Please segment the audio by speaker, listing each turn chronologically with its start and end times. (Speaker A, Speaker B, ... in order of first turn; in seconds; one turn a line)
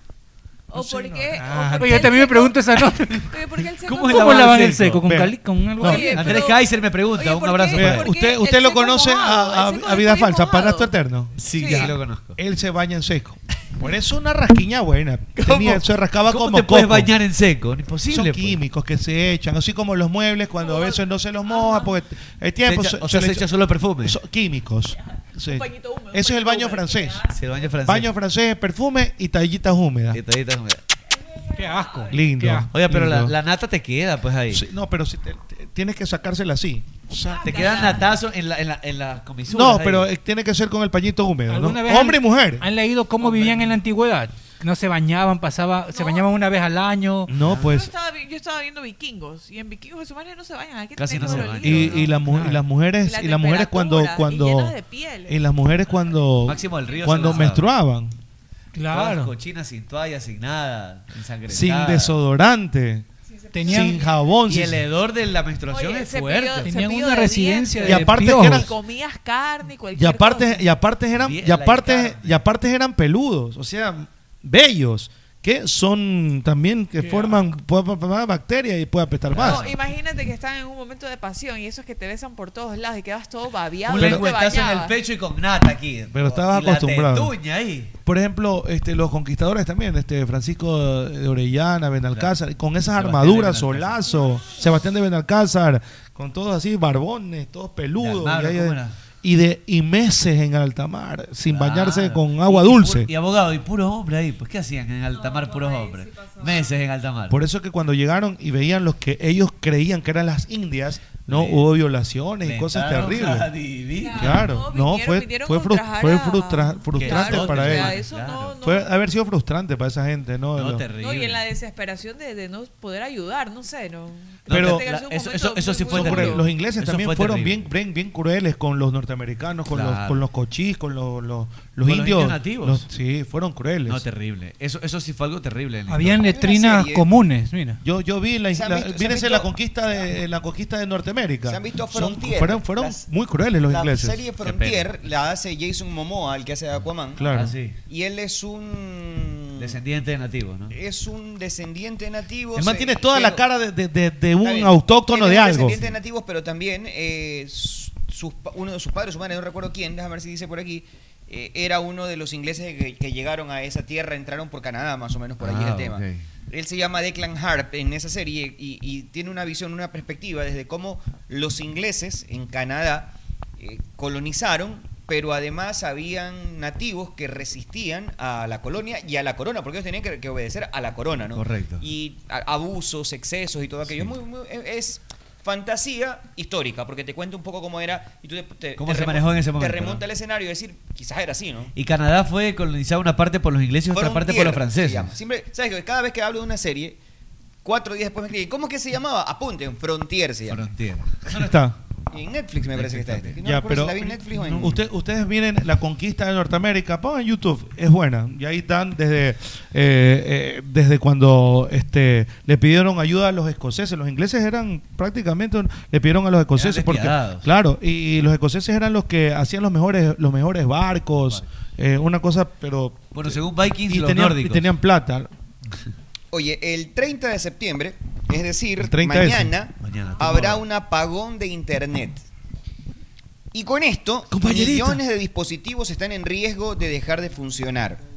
Speaker A: 0.7-2.7
Speaker B: 0.8-2.0
Speaker C: 1.6-3.3
Speaker A: 3.2-4.6
Speaker D: 3.8-5.0
Speaker C: 4.1-6.4
Speaker B: 5.0-6.2
Speaker A: 5.8-10.9
Speaker D: 5.9-8.1
Speaker B: 7.7-17.1
Speaker D: 11.4-12.4
Speaker A: 11.5-11.9
Speaker D: 15.4-18.6
Speaker B: 18.1-23.5
Speaker A: 20.6-22.0
Speaker D: 22.6-24.2
Speaker B: 24.0-27.2
Speaker A: 25.5-27.7
Speaker D: 27.3-28.1
Speaker B: 27.8-30.2
Speaker D: 30.1-30.8
Speaker A: 31.2-32.3
Speaker C: 31.6-32.7
Speaker B: 32.1-33.3
Speaker D: 32.7-34.6
Speaker B: 34.5-37.7
Speaker A: 37.2-38.1
Speaker D: 37.4-40.1
Speaker B: 39.5-42.6
Speaker C: 41.5-47.3
Speaker D: 43.2-43.7
Speaker A: 45.9-46.3
Speaker B: 47.3-47.9
Speaker D: 47.5-47.8
Speaker A: 47.5-52.3
Speaker D: 51.0-52.1
Speaker B: 51.3-54.8
Speaker C: 52.3-52.6
Speaker A: 53.0-55.4
Speaker B: 55.3-58.1
Speaker D: 56.5-57.6
Speaker A: 56.7-57.5
Speaker C: 58.8-59.3
Speaker D: 58.9-62.1
Speaker B: 61.5-63.1
Speaker A: 63.3-64.2
Speaker C: 63.5-64.0
Speaker B: 63.7-64.8
Speaker D: 64.5-66.7
Speaker A: 65.7-70.7
Speaker C: 66.4-68.7
Speaker B: 67.8-68.7
Speaker B: 70.0-79.7
Speaker D: 71.2-72.4
Speaker C: 77.0-77.4
Speaker D: 79.3-79.7
Speaker A: 79.4-85.0
Speaker D: 83.9-87.9
Speaker B: 83.9-84.3
Speaker B: 86.1-87.3
Speaker B: 88.1-103.1
Speaker D: 93.0-94.0
Speaker D: 98.0-99.0
Speaker D: 101.5-107.4
Speaker A: 105.2-106.4
Speaker B: 107.3-113.5
Speaker D: 111.3-111.7
Speaker D: 112.4-114.5
Speaker A: 114.0-118.9
Speaker B: 114.2-118.0
Speaker D: 117.0-118.6
Speaker B: 118.6-120.8
Speaker D: 120.6-121.4
Speaker A: 121.0-126.5
Speaker D: 124.5-127.7
Speaker B: 124.5-124.8
Speaker B: 125.9-134.0
Speaker D: 129.7-130.2
Speaker D: 131.8-132.9
Speaker D: 133.9-136.3
Speaker C: 135.9-137.8
Speaker E: 136.2-137.1
Speaker B: 137.8-144.2
Speaker E: 138.5-139.5
Speaker E: 141.5-143.0
Speaker E: 143.7-147.2
Speaker D: 144.4-144.9
Speaker B: 147.2-147.6
Speaker D: 147.3-147.8
Speaker E: 147.9-149.8
Speaker D: 149.6-150.7
Speaker E: 150.7-153.4
Speaker B: 152.6-155.8
Speaker E: 154.4-191.7
Speaker D: 165.4-166.2
Speaker D: 181.3-181.8
Speaker D: 183.8-184.1
Speaker D: 188.8-190.0
Speaker D: 191.8-195.1
Speaker E: 193.9-197.0
Speaker E: 197.6-200.6
Speaker D: 200.5-201.5
Speaker B: 201.3-201.8
Speaker E: 202.1-204.8
Speaker D: 202.7-203.4
Speaker B: 203.4-225.3
Speaker D: 216.6-217.5
Speaker D: 223.1-224.7
Speaker E: 226.3-232.2
Speaker B: 228.8-229.5
Speaker D: 229.8-230.6
Speaker E: 233.5-238.0
Speaker B: 234.3-235.0